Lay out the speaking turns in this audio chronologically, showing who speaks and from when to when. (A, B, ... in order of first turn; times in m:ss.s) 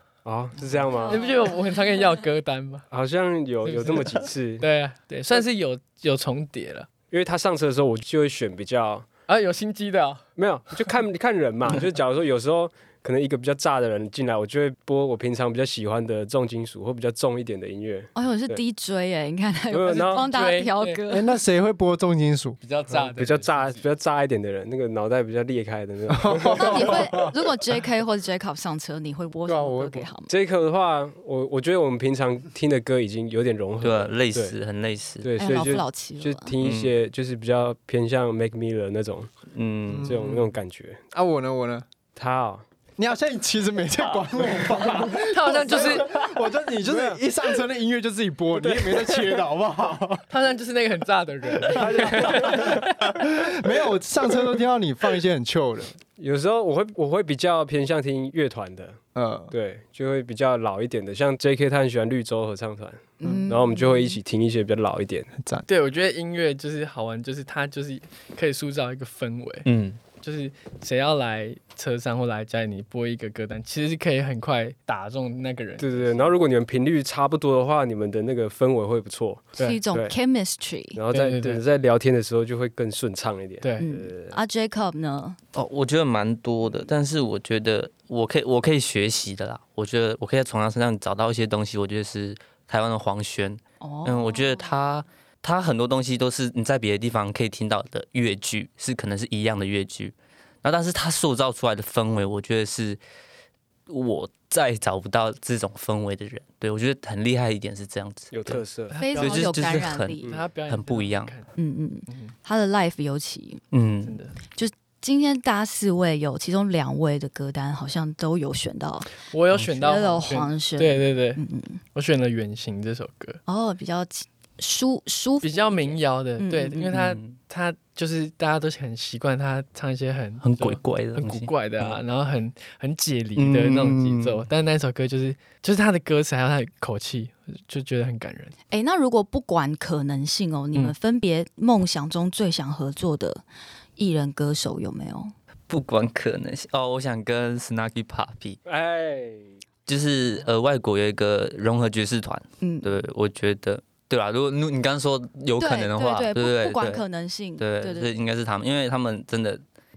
0:00.2-0:01.2 A
0:00.9-0:01.7 B
0:01.1-0:02.9 C
0:02.9-0:04.7 A
0:03.6-0:06.9 C
0:07.1-0:09.1 A
0:09.3-0:10.2 C
0:10.4-0:18.6 A
0:18.1-0:21.3 B
0:19.7-0:20.3 A
0:20.2-0:21.0 C
0:21.1-0:22.6 D
0:22.6-0:23.8 C
0:22.9-0:27.2 A
0:26.1-0:27.3 D
0:26.5-0:30.3 B
0:29.4-0:30.1 D
0:30.3-0:34.6 A
0:33.8-0:35.5 E
0:35.2-0:39.3 A
0:35.4-0:36.5 B
0:36.6-0:36.9 E
0:39.5-0:40.3 E
0:39.9-0:40.5 D
0:40.0-0:41.0 A
0:41.1-0:41.9 D
0:42.1-0:42.6 A
0:43.0-0:50.3 D
0:45.2-0:46.1 C
0:46.9-0:47.2 A
0:48.7-0:48.9 A
0:50.3-0:53.3 C
0:51.7-0:52.9 A
0:51.7-0:56.0 D
0:56.2-0:59.0 A
0:59.1-0:59.5 D
0:59.5-1:05.3 A
1:03.2-1:04.2 B
1:05.4-1:05.6 D
1:05.7-1:16.3 C
1:09.6-1:10.0 E
1:15.8-1:20.2 A
1:19.6-1:21.0 B
1:20.9-1:24.4 A
1:21.1-1:21.6 C
1:23.6-1:23.9 C
1:23.8-1:25.4 B
1:25.5-1:43.0 E
1:33.8-1:34.7 B
1:43.9-1:51.3 E
1:48.3-1:49.1 A
1:48.9-1:49.6 C
1:49.0-1:50.3 B
1:50.2-1:50.5 A
1:50.2-1:51.5 C
1:51.6-1:53.6 B
1:52.1-1:52.3 C
1:53.7-1:54.2 E
1:54.0-1:54.4 C
1:54.5-1:59.1 B
1:59.3-2:01.4 C
1:59.5-2:00.0 E
1:59.8-2:01.8 B
2:01.9-2:03.4 C
2:03.5-2:06.9 B
2:05.4-2:18.5 C
2:06.9-2:07.3 E
2:10.4-2:12.0 E
2:13.4-2:14.4 E
2:18.7-2:23.4 B
2:24.0-2:25.3 B
2:25.7-2:28.6 E
2:28.6-2:29.5 A
2:29.9-2:37.0 E
2:32.6-2:32.9 B
2:35.6-2:38.1 B
2:37.6-2:39.6 E